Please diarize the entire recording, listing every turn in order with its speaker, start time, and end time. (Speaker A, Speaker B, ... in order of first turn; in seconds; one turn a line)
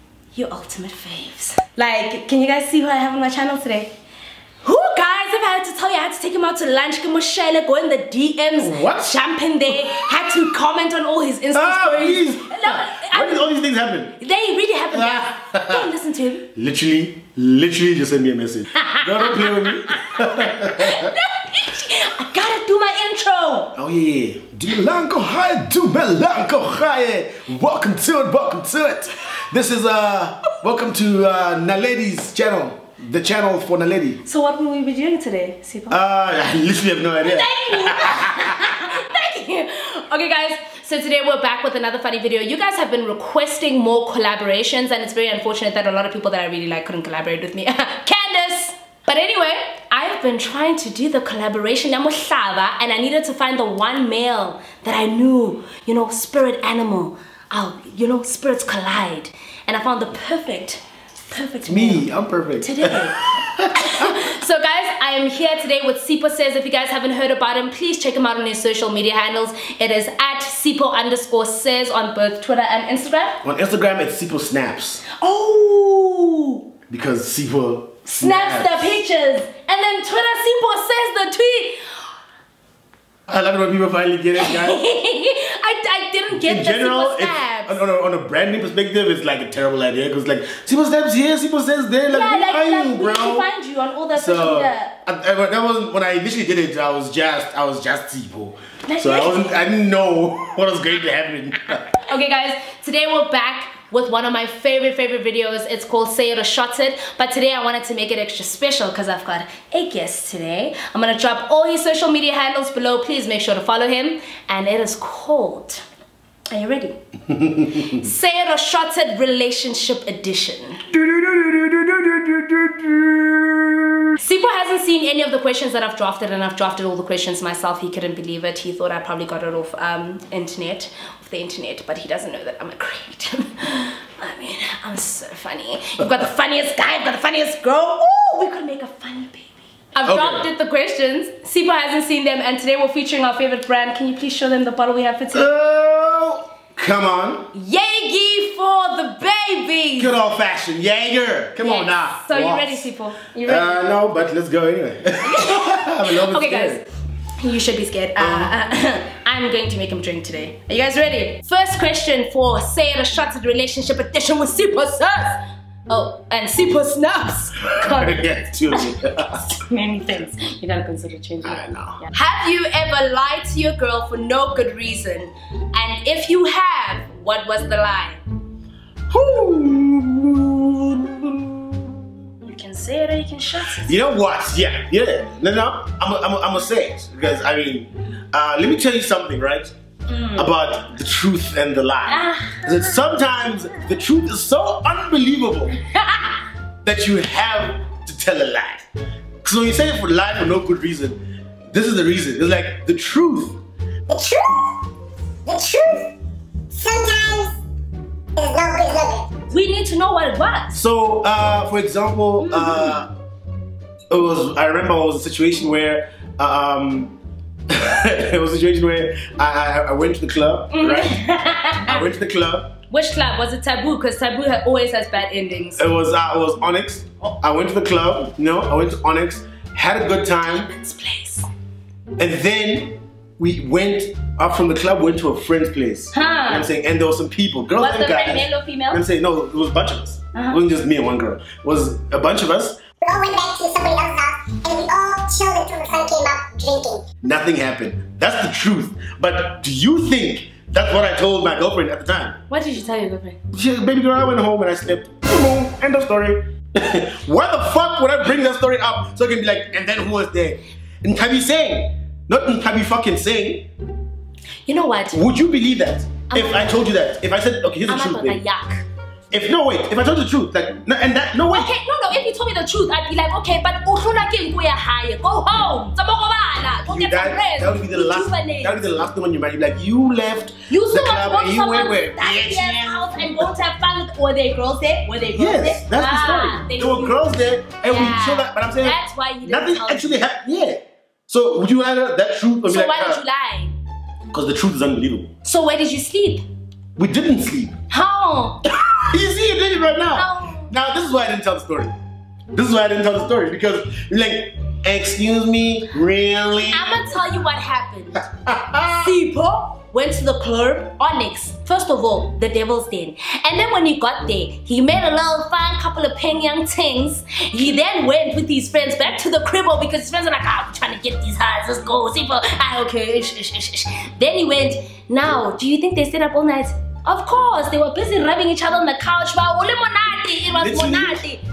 Speaker A: 0.3-3.9
Speaker A: 4.6-13.5
Speaker B: 8.6-9.1
Speaker B: 11.5-14.2
Speaker A: 14.2-16.5
Speaker B: 14.9-15.9
Speaker B: 16.6-21.1
Speaker A: 18.8-23.7
Speaker B: 23.8-34.2
Speaker A: 34.2-36.0
Speaker B: 35.9-39.0
Speaker A: 37.2-62.1
Speaker B: 61.7-64.2
Speaker A: 62.6-63.2
Speaker A: 63.7-73.4
Speaker B: 73.4-75.0
Speaker A: 75.1-76.7
Speaker B: 76.9-79.0
Speaker A: 78.1-81.8
Speaker B: 83.3-84.8
Speaker A: 84.3-87.8
Speaker B: 86.4-93.5
Speaker A: 92.1-95.0
Speaker B: 94.2-102.0
Speaker A: 98.9-99.4
Speaker A: 102.1-115.8
Speaker A: 116.5-117.0
Speaker B: 117.3-117.8
Speaker A: 117.7-120.8
Speaker B: 120.9-124.1
Speaker A: 124.2-145.5
Speaker B: 140.1-140.4
Speaker B: 145.3-147.5
Speaker A: 147.5-150.2
Speaker B: 150.0-152.9
Speaker A: 151.6-153.8
Speaker B: 153.4-156.8
Speaker A: 155.2-156.9
Speaker A: 157.4-178.2
Speaker B: 158.2-158.6
Speaker B: 167.6-169.4
Speaker B: 171.4-172.0
Speaker B: 179.1-182.0
Speaker A: 182.4-184.0
Speaker B: 183.8-189.7
Speaker A: 190.1-190.5
Speaker B: 190.3-195.8
Speaker A: 192.1-193.1
Speaker A: 195.9-196.4
Speaker B: 196.8-198.9
Speaker B: 199.4-201.2
Speaker B: 201.7-203.6
Speaker C: 204.1-204.8
Speaker C: 205.5-206.1
Speaker C: 206.7-207.6
Speaker C: 208.4-209.3
Speaker A: 209.5-210.8
Speaker B: 210.7-213.1
Speaker A: 212.4-212.9
Speaker B: 214.1-217.2
Speaker B: 217.7-221.2
Speaker A: 220.7-222.1
Speaker B: 221.8-222.7
Speaker A: 222.9-225.8
Speaker B: 225.8-230.7
Speaker A: 230.6-231.5
Speaker B: 232.2-242.8
Speaker A: 236.1-236.7
Speaker A: 237.8-239.0
Speaker A: 240.3-240.6
Speaker C: 243.0-247.0
Speaker B: 247.2-252.4
Speaker A: 252.5-253.4
Speaker B: 253.5-263.7
Speaker A: 264.7-265.3
Speaker B: 265.1-268.4
Speaker A: 266.3-266.9
Speaker A: 267.9-268.9
Speaker B: 269.3-271.7
Speaker A: 271.5-278.8
Speaker B: 276.9-283.5
Speaker A: 280.7-287.2
Speaker B: 285.3-293.2
Speaker A: 287.8-290.3
Speaker A: 292.7-293.8
Speaker B: 294.3-295.3
Speaker A: 295.4-296.4
Speaker B: 297.0-297.8
Speaker A: 297.9-299.1
Speaker B: 299.1-301.9
Speaker A: 300.1-300.7
Speaker B: 302.5-307.1
Speaker A: 306.7-308.2
Speaker B: 308.2-309.2
Speaker A: 309.0-331.4
Speaker B: 330.6-331.2